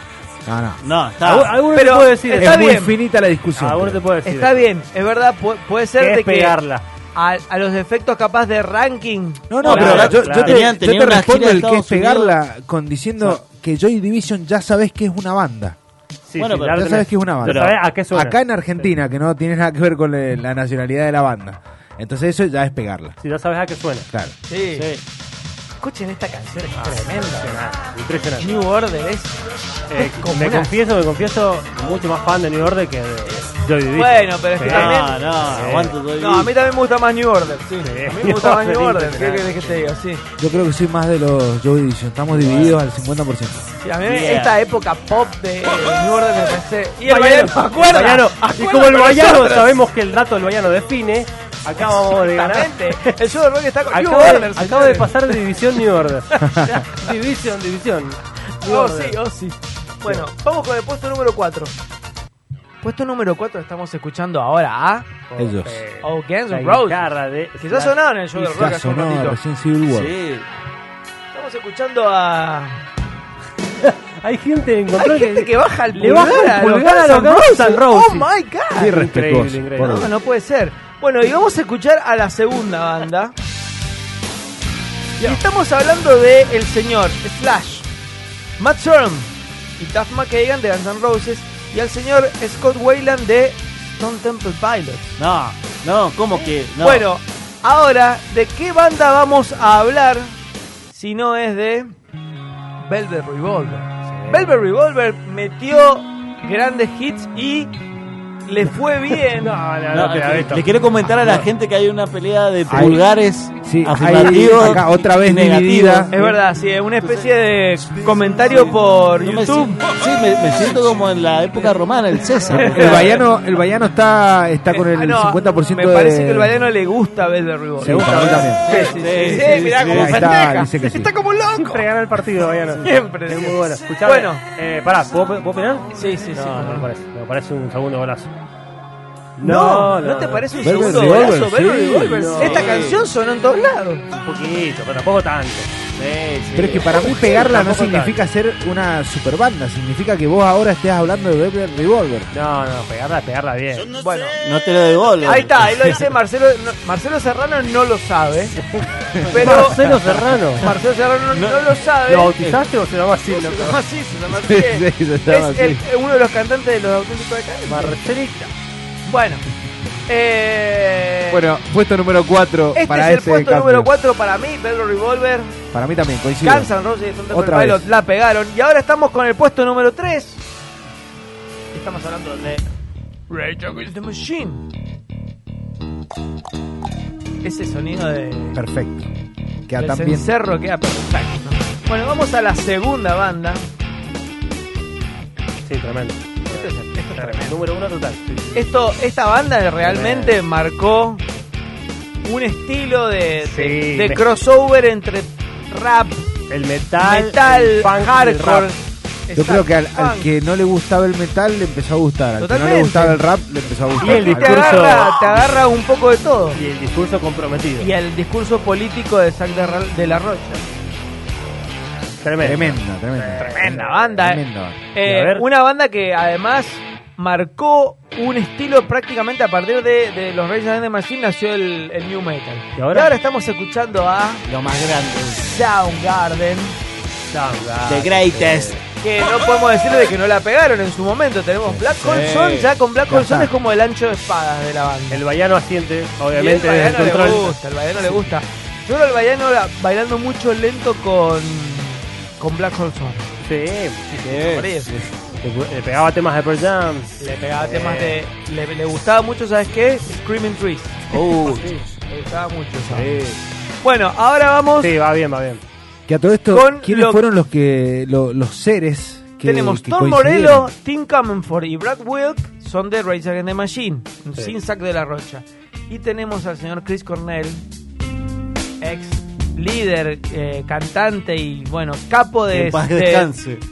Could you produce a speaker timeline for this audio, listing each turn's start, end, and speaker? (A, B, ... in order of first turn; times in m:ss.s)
0:00.5-0:00.8 A
0:00.8-0:01.6 B
0:01.2-0:02.7 C
0:01.7-0:03.0 D
0:02.4-0:04.0 A
0:03.6-0:04.7 C
0:04.2-0:06.6 D
0:06.0-0:06.8 C
0:07.1-0:10.1 D
0:09.5-0:15.8 A
0:09.6-0:12.4 B
0:09.6-0:10.7 C
0:16.2-0:18.9 C
0:16.4-0:16.8 B
0:16.7-0:23.2 A
0:17.4-0:17.8 B
0:23.2-0:24.1 C
0:24.5-0:24.9 D
0:24.8-0:25.0 B
0:25.8-0:27.6 D
0:26.8-0:28.6 C
0:28.4-0:29.4 D
0:29.9-0:36.0 C
0:29.9-0:30.7 D
0:33.9-0:35.3 D
0:34.7-0:36.5 B
0:36.2-0:40.2 D
0:37.8-0:38.6 C
0:38.4-0:39.9 B
0:40.4-0:43.6 A
0:42.3-0:42.8 C
0:43.8-0:49.7 D
0:44.0-0:44.6 B
0:47.0-0:53.2 C
0:51.8-0:55.4 D
0:53.9-0:59.2 C
0:56.4-0:56.9 D
0:56.4-0:56.8 A
0:58.6-1:01.7 D
1:02.8-1:05.1 D
1:05.3-1:08.0 C
1:05.4-1:05.8 A
1:06.0-1:07.0 D
1:07.6-1:09.4 D
1:08.4-1:10.1 A
1:09.9-1:10.5 B
1:11.3-1:12.8 D
1:13.8-1:20.1 C
1:15.0-1:19.0 D
1:18.8-1:20.1 A
1:19.8-1:23.3 D
1:25.2-1:27.9 D
1:28.6-1:35.2 D
1:35.2-1:37.1 B
1:36.3-1:40.4 D
1:40.9-1:41.9 D
1:42.8-1:47.8 D
1:44.1-1:44.6 C
1:48.4-1:49.5 D
1:49.4-1:51.5 C
1:49.9-1:56.3 B
1:52.7-1:53.1 A
1:53.6-1:56.1 A
1:56.1-1:59.8 D
1:57.0-1:57.3 B
1:59.2-2:03.2 B
2:02.5-2:03.2 D
2:02.6-2:06.6 A
2:04.7-2:11.8 D
2:07.8-2:08.6 A
2:07.8-2:09.5 C
2:08.8-2:10.3 B
2:09.5-2:11.1 A
2:10.5-2:18.3 C
2:12.7-2:14.4 D
2:15.9-2:16.9 D
2:19.4-2:21.4 C
2:19.4-2:24.1 D
2:20.6-2:22.3 A
2:22.0-2:22.8 C
2:22.4-2:23.0 B
2:24.1-2:25.7 C
2:26.0-2:26.9 B
2:26.5-2:32.3 A
2:26.9-2:28.3 C
2:32.3-2:34.0 C
2:34.0-2:34.4 D
2:34.4-2:36.1 B
2:35.2-2:38.6 D
2:39.1-2:39.6 A
2:39.2-2:39.9 D
2:39.4-2:40.8 C
2:40.6-2:42.4 D
2:41.3-2:41.8 B
2:42.1-2:43.8 C
2:43.3-2:48.0 D
2:44.3-2:45.8 A
2:47.7-2:48.5 C
2:49.1-2:49.4 D
2:50.1-2:51.5 D
2:51.3-2:53.9 A
2:52.7-2:55.6 D
2:55.7-2:56.7 A
2:56.4-3:00.4 D
2:57.3-2:57.9 A
3:01.7-3:02.6 D
3:03.3-3:04.6 D
3:07.4-3:08.6 D
3:08.6-3:09.1 A
3:09.7-3:10.3 A
3:09.8-3:13.7 D
3:15.6-3:18.7 C
3:16.5-3:17.6 D
3:18.6-3:21.2 D
3:19.8-3:20.4 C
3:22.2-3:26.2 D
3:23.4-3:24.2 C
3:26.5-3:28.7 C
3:27.0-3:30.3 D
3:29.4-3:35.0 A
3:32.4-3:33.2 D
3:34.0-3:35.4 C
3:34.0-3:36.6 D
3:36.5-3:37.9 C
3:37.8-3:40.6 D
3:42.2-3:44.1 C
3:42.4-3:44.8 A
3:43.4-3:54.4 D
3:45.0-3:45.5 C
3:52.8-3:53.1 C
3:54.5-3:55.6 B
3:55.4-3:56.8 D
3:57.3-3:58.8 C
3:57.8-3:58.8 B
3:59.0-4:05.2 D
4:02.0-4:02.7 B
4:03.1-4:03.5 A
4:05.1-4:08.3 C
4:06.3-4:13.3 D
4:13.4-4:14.8 C
4:14.3-4:14.6 B
4:14.5-4:14.9 D
4:15.4-4:18.2 C
4:17.2-4:21.5 D
4:21.2-4:21.6 B
4:21.4-4:21.8 C
4:22.1-4:23.3 D
4:22.9-4:23.4 C
4:23.8-4:24.9 D
4:24.8-4:25.6 C
4:26.1-4:30.7 A
4:26.5-4:27.2 D
4:29.4-4:37.6 D
4:38.8-4:43.3 D
4:42.5-4:43.6 B